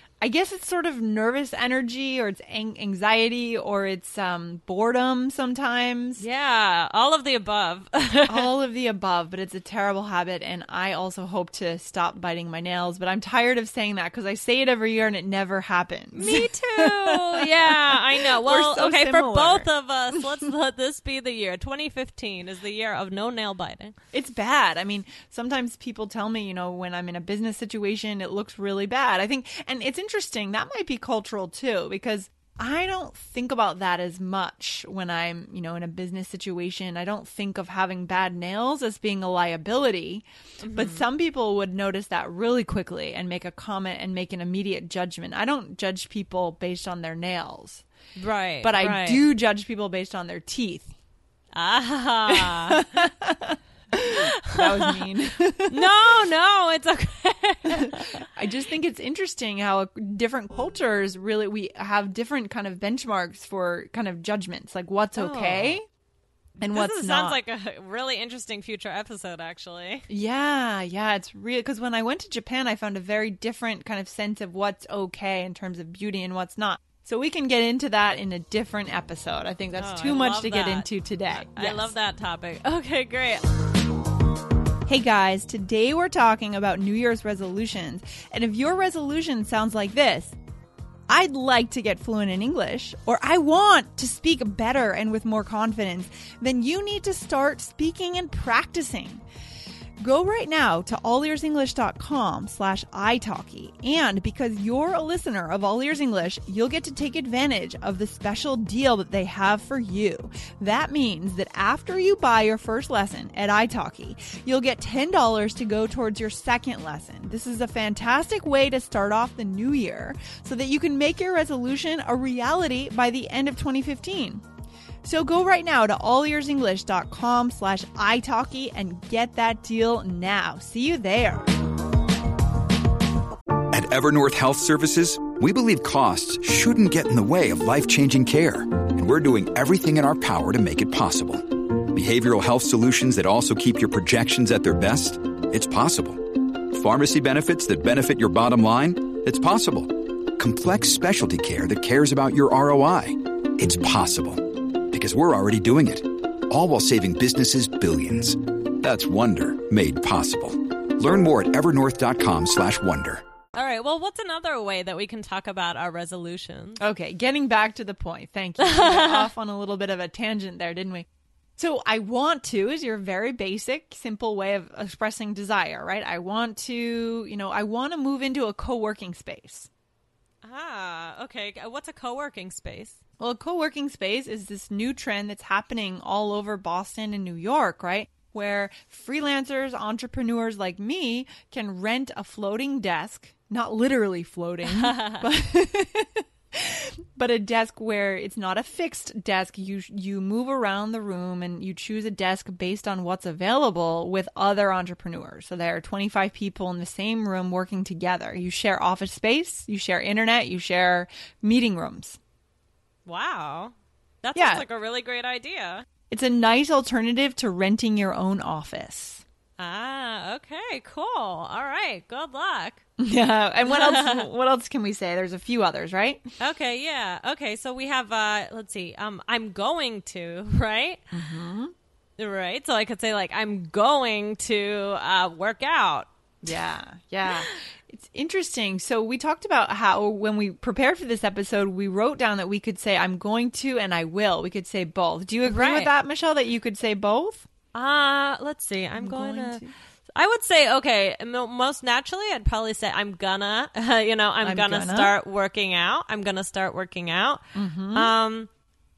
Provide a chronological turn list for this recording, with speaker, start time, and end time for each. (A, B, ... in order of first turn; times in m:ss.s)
0:00.2-0:06.2 A
0:06.2-0:08.5 B
0:08.3-0:19.7 A
0:16.1-0:24.0 B
0:24.1-0:47.8 A
0:40.6-0:41.1 B
0:48.2-0:49.3 B
0:48.6-0:50.9 A
0:51.5-0:52.8 B
0:52.3-0:55.9 A
0:54.1-0:55.1 B
0:55.7-0:58.2 B
0:57.7-1:05.8 A
1:05.2-1:05.8 B
1:06.6-1:10.0 B
1:06.6-1:07.4 A
1:10.1-1:21.9 A
1:19.8-1:23.4 B
1:24.9-1:30.4 A
1:31.1-1:39.2 A
1:40.0-2:04.4 A
2:05.0-2:11.5 A
2:13.7-2:43.2 C
2:43.6-2:46.8 B
2:46.8-2:59.7 A
2:48.6-2:49.3 B
3:00.4-3:03.0 B
3:03.2-3:32.2 A
3:14.6-3:15.2 B
3:33.1-3:35.9 B
3:34.4-3:34.6 A
3:36.1-3:39.2 A
3:39.6-3:42.8 B
3:43.0-3:46.2 A
3:43.6-3:44.3 B
3:46.4-3:51.2 B
3:51.1-3:51.7 A
3:52.2-3:56.1 B
3:56.4-4:07.5 A
4:05.5-4:05.9 B
4:07.7-4:09.6 B
4:09.0-4:09.7 A
4:10.2-4:18.5 B
4:14.4-4:15.2 A
4:17.6-4:18.1 A